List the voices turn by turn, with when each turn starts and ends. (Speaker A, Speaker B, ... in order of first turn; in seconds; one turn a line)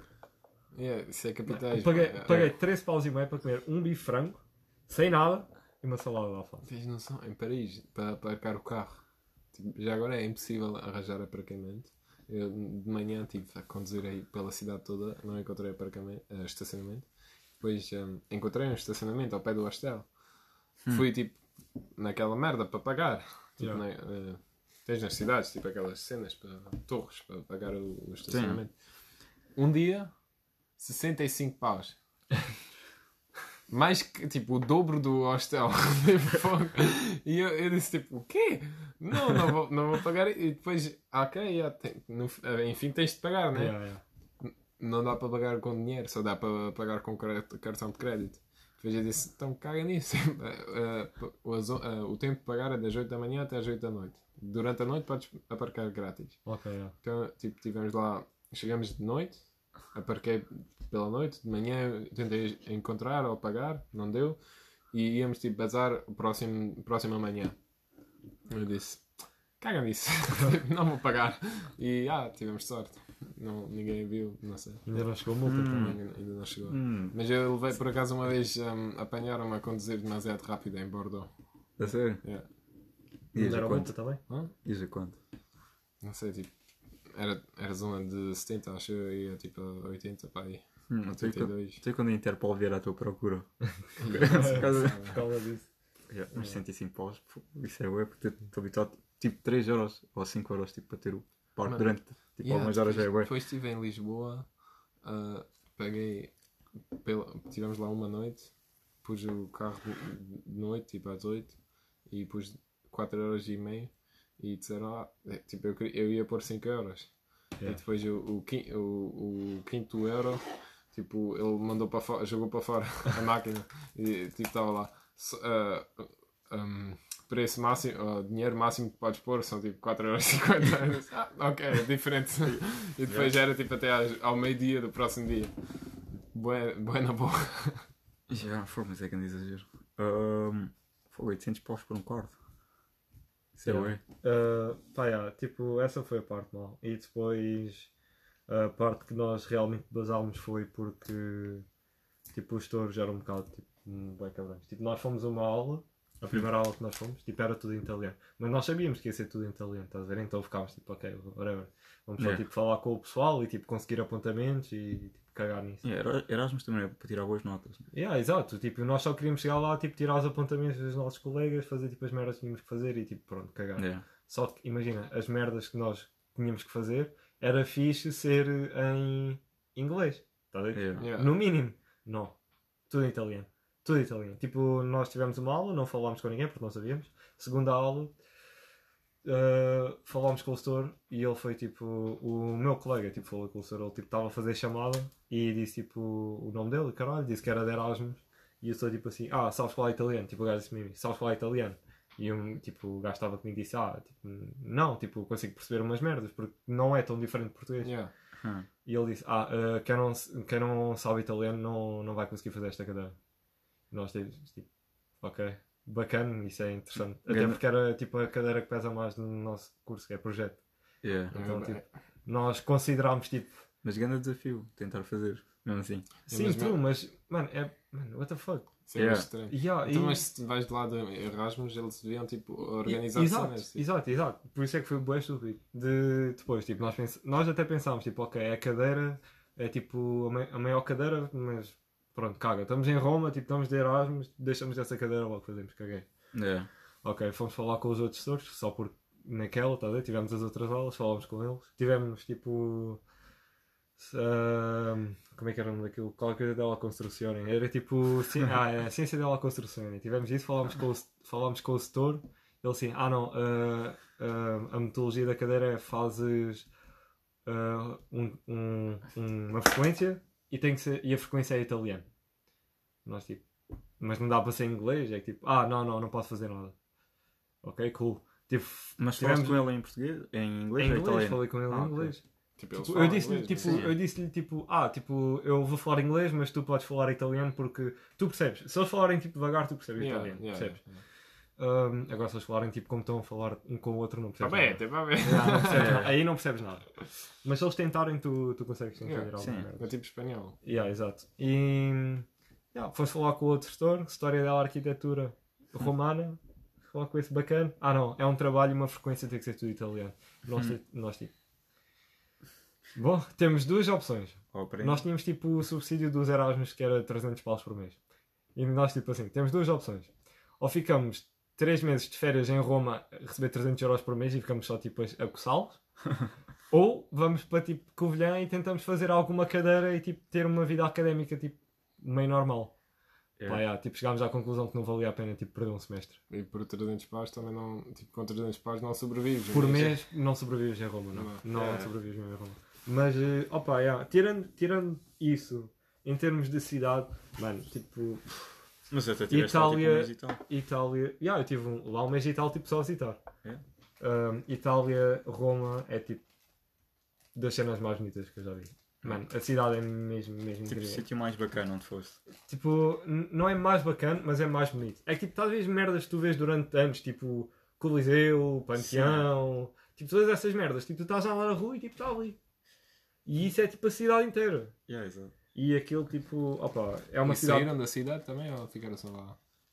Speaker A: 0.7-2.5
Speaker B: 1.5-6.7
Speaker A: 6.7-32.3
Speaker C: 28.3-28.6
Speaker A: 33.7-67.7
Speaker B: 43.5-44.0
Speaker B: 56.4-56.9
Speaker A: 68.5-82.5
Speaker B: 74.8-76.0
Speaker C: 75.4-77.2
Speaker C: 81.8-82.5
Speaker B: 83.3-84.2
Speaker C: 83.3-85.2
Speaker A: 86.0-91.8
Speaker C: 90.9-95.2
Speaker A: 94.0-95.2
Speaker B: 94.3-96.6
Speaker C: 96.1-103.3
Speaker A: 101.7-137.9
Speaker C: 132.4-133.3
Speaker C: 138.3-142.4
Speaker C: 143.5-144.0
Speaker B: 143.6-147.9
Speaker B: 148.5-151.7
Speaker B: 152.3-165.8
Speaker C: 165.8-167.8
Speaker B: 167.9-182.4
Speaker C: 173.8-174.0
Speaker C: 180.7-181.1
Speaker A: 181.0-181.4
Speaker B: 182.9-188.2
Speaker B: 189.2-208.0
Speaker A: 207.8-208.1
Speaker C: 208.4-208.7
Speaker B: 208.8-213.2
Speaker B: 213.9-223.6
Speaker C: 217.2-217.6
Speaker C: 221.0-221.3
Speaker A: 221.3-221.9
Speaker C: 223.8-226.1
Speaker B: 226.3-228.9
Speaker A: 226.3-226.8
Speaker A: 228.9-233.8
Speaker C: 228.9-229.3
Speaker B: 229.5-230.2
Speaker B: 232.8-246.3
Speaker C: 246.3-246.7
Speaker B: 247.0-253.0
Speaker B: 254.0-266.7
Speaker B: 267.4-272.1
Speaker B: 273.0-273.4
Speaker B: 274.0-276.8
Speaker B: 277.6-279.7
Speaker C: 279.0-282.1
Speaker B: 280.8-291.0
Speaker A: 282.6-283.8
Speaker C: 283.6-284.0
Speaker A: 290.0-291.0
Speaker B: 291.6-300.0
Speaker A: 294.4-295.9
Speaker C: 295.7-296.1
Speaker A: 299.0-300.6
Speaker C: 299.4-299.7
Speaker B: 300.6-311.3
Speaker B: 312.9-318.0
Speaker C: 314.5-315.0
Speaker B: 318.5-325.8
Speaker B: 326.7-332.8
Speaker C: 333.4-333.6
Speaker B: 333.5-336.2
Speaker A: 336.3-340.0
Speaker B: 339.5-348.6
Speaker A: 341.1-341.4
Speaker C: 341.5-341.9
Speaker C: 348.9-350.4
Speaker B: 349.3-353.2
Speaker B: 354.0-356.2
Speaker B: 357.3-361.0
Speaker C: 360.7-362.2
Speaker B: 362.4-372.4
Speaker C: 368.9-369.2
Speaker B: 373.2-374.8
Speaker C: 374.9-375.3
Speaker B: 375.5-377.7
Speaker A: 377.2-379.4